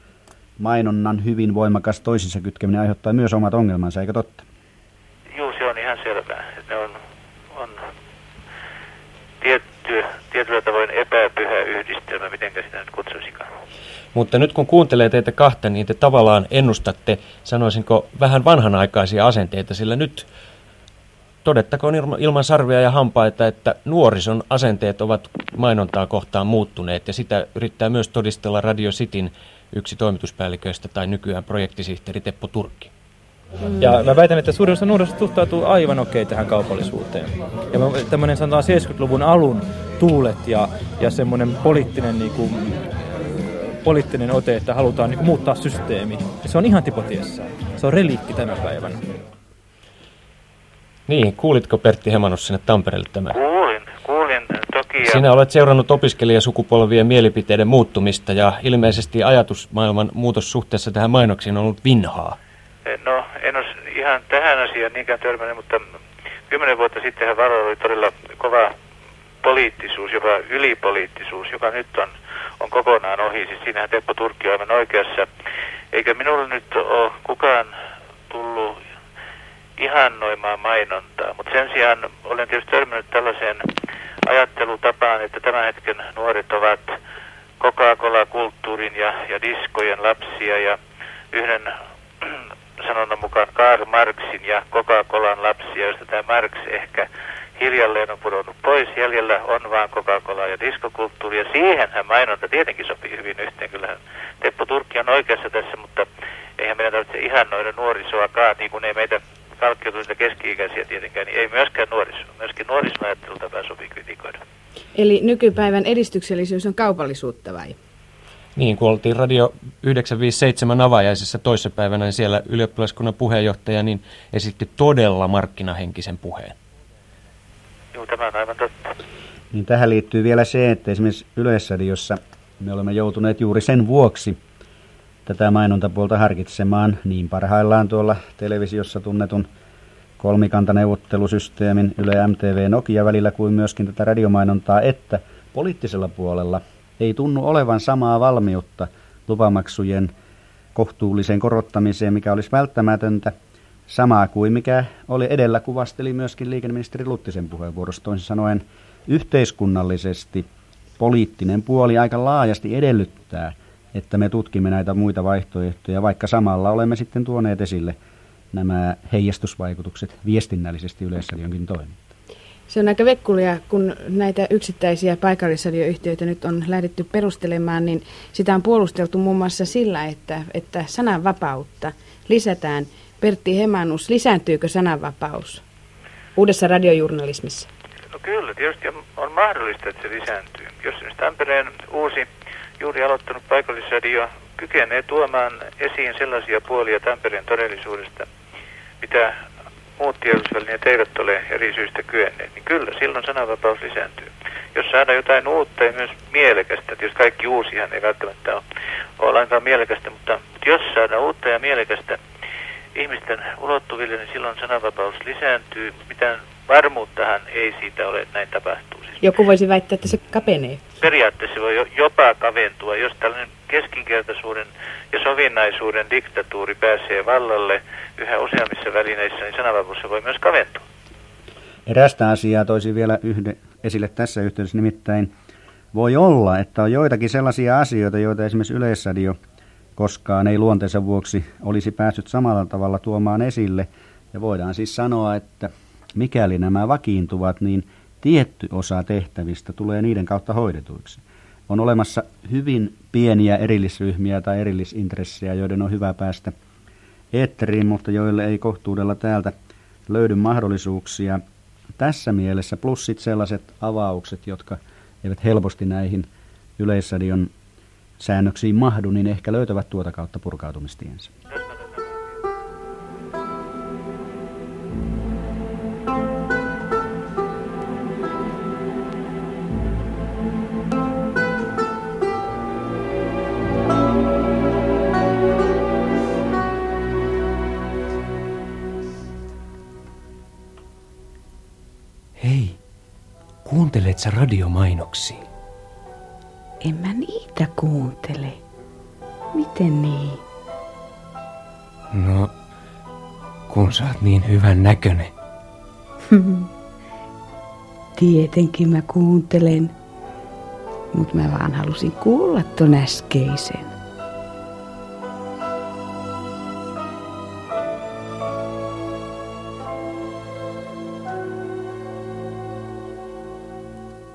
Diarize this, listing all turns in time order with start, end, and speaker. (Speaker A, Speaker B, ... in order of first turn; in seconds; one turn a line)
Speaker A: 0.6-4.4
Speaker B: 5.3-7.0
Speaker B: 7.5-7.8
Speaker B: 9.4-13.5
Speaker C: 14.1-20.3
Speaker C: 21.4-32.9
Speaker D: 33.8-42.8
Speaker D: 43.7-49.0
Speaker C: 51.1-53.4
Speaker B: 53.3-55.2
Speaker C: 55.0-62.4
Speaker B: 62.9-65.8
Speaker B: 66.5-68.7
Speaker B: 69.4-75.3
Speaker B: 75.9-77.7
Speaker B: 78.3-78.8
Speaker B: 79.8-83.7
Speaker B: 84.3-86.9
Speaker B: 87.6-90.8
Speaker B: 91.3-91.7
Speaker B: 92.8-106.1
Speaker B: 106.6-114.4
Speaker E: 114.9-117.8
Speaker C: 118.5-126.5
Speaker B: 127.9-128.7
Speaker A: 129.5-134.4
Speaker A: 135.2-139.5
Speaker A: 140.2-150.1
Speaker A: 150.7-153.3
Speaker A: 153.9-160.4
Speaker A: 161.0-167.9
Speaker A: 168.5-172.0
Speaker E: 172.7-185.6
Speaker E: 186.3-187.7
Speaker B: 188.2-192.3
Speaker B: 192.8-198.3
Speaker B: 199.0-199.3
Speaker B: 200.0-208.6
Speaker B: 209.2-212.2
Speaker B: 212.9-219.2
Speaker E: 219.2-220.8
Speaker B: 221.0-230.8
Speaker A: 231.8-235.3
Speaker A: 235.9-239.4
Speaker A: 240.0-256.5
Speaker A: 257.3-259.5
Speaker A: 260.1-261.4
Speaker A: 262.0-267.5
Speaker A: 268.2-271.3
Speaker B: 271.5-272.0
Speaker C: 292.4-292.8
Speaker C: 293.6-295.5
Speaker E: 296.8-298.6
Speaker E: 299.5-300.4
Speaker C: 302.1-302.5
Speaker C: 303.7-305.3
Speaker E: 306.3-306.6
Speaker E: 308.1-309.9
Speaker E: 311.1-313.9